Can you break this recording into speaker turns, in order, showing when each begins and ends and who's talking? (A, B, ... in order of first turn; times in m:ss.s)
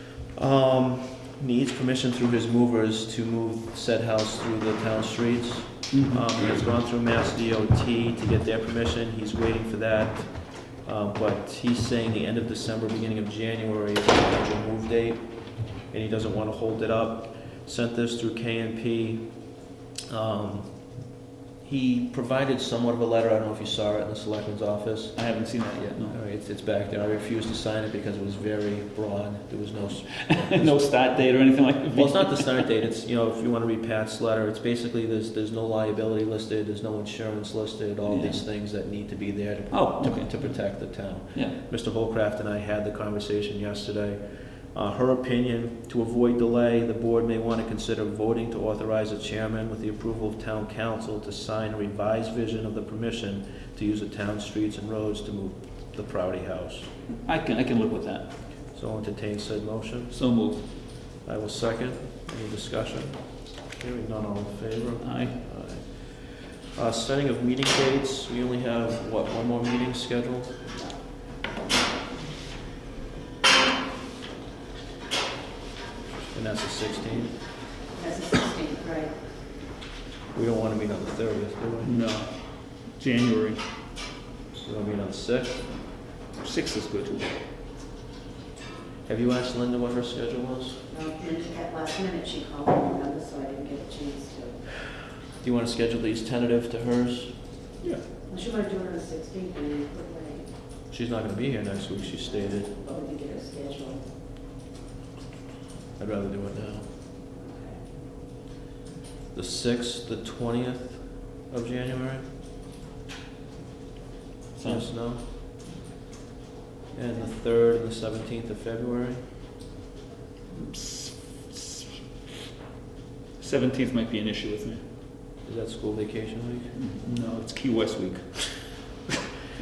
0:00.4-0:25.2 A
0:05.9-0:06.3 B
0:25.2-0:26.2 B
0:26.1-0:56.9 A
0:30.3-0:32.6 B
0:38.1-0:38.4 B
0:39.7-0:41.6 B
0:57.2-0:58.3 B
0:58.7-1:00.2 A
1:00.1-1:00.6 B
1:01.2-1:10.7 A
1:05.0-1:05.4 B
1:16.3-1:17.4 A
1:17.9-1:19.2 C
1:20.3-1:22.0 A
1:21.8-1:23.6 B
1:24.6-1:25.8 A
1:26.4-1:27.3 B
1:29.1-1:30.9 A
1:30.9-1:34.6 C
1:35.4-1:37.4 A
1:38.3-1:40.5 C
1:40.9-1:42.7 A
1:42.6-1:44.1 C
1:46.0-1:46.9 A
1:47.4-1:47.8 C
1:49.3-1:52.3 A
1:54.6-1:54.9 B
1:54.6-1:55.3 A
1:56.9-1:59.3 A
2:00.6-2:01.9 B
2:03.4-2:04.8 B
2:05.4-2:06.8 A
2:06.8-2:08.7 B